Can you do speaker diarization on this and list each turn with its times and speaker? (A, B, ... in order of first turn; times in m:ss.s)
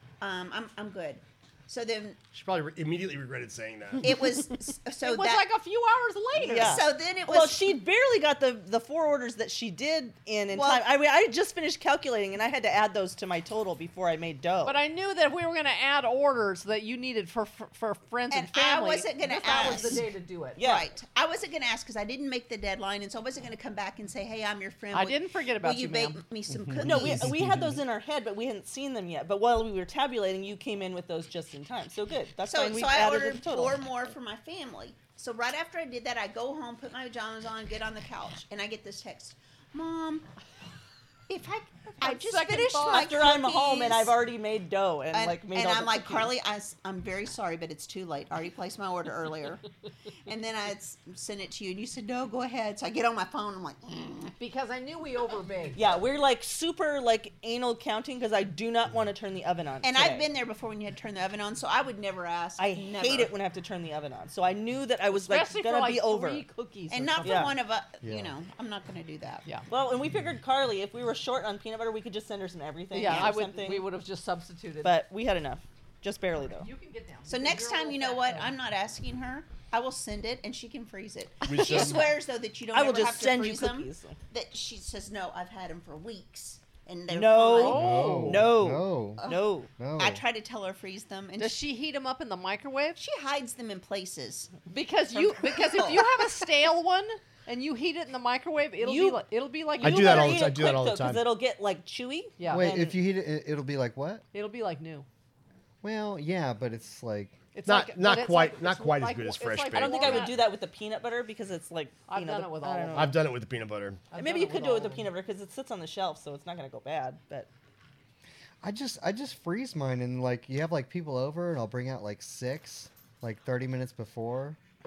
0:00.2-0:02.2 A
0:02.3-0:04.1 B
0:04.0-0:05.5 A
0:05.0-0:06.8 C
0:06.4-0:14.8 D
0:06.5-0:07.7 A
0:10.5-0:10.8 A
0:14.6-0:20.6 C
0:18.3-0:27.3 A
0:19.5-0:20.0 D
0:20.6-0:20.9 D
0:24.9-0:26.2 C
0:26.5-0:27.7 E
0:26.8-0:33.8 D
0:27.1-0:27.6 B
0:32.5-0:40.3 A
0:41.3-0:44.2 A
0:42.0-0:43.2 C
0:42.8-0:46.3 D
0:45.1-0:49.7 A
0:50.3-0:54.3 A
0:54.4-0:55.8 C
0:55.8-1:00.3 D
0:59.8-1:03.3 A
1:02.6-1:06.4 D
1:05.1-1:07.5 C
1:06.9-1:09.4 A
1:07.2-1:07.6 D
1:08.0-1:08.3 E
1:09.7-1:13.9 D
1:12.9-1:14.9 C
1:13.1-1:13.3 A
1:14.8-1:16.7 D
1:16.6-1:18.5 C
1:17.3-1:27.9 A
1:21.4-1:22.1 B
1:21.5-1:22.1 D
1:22.7-1:24.2 D
1:27.1-1:29.7 D
1:27.5-1:28.5 C
1:27.7-1:29.2 E
1:29.2-1:31.6 A
1:29.8-1:30.2 E
1:31.4-1:33.0 C
1:33.0-1:34.5 A
1:34.7-1:40.5 C
1:35.1-1:36.2 A
1:38.8-1:39.2 D
1:39.8-1:41.3 B
1:39.8-1:43.0 D
1:42.4-1:42.7 C
1:42.5-1:44.2 E
1:44.3-1:45.1 C
1:45.8-1:47.4 E
1:47.5-1:50.4 C
1:47.6-1:50.3 B
1:49.7-1:53.2 D
1:52.1-1:53.2 C
1:52.9-1:54.0 B
1:54.1-1:55.1 C
1:54.1-1:57.5 D
1:58.6-2:04.6 E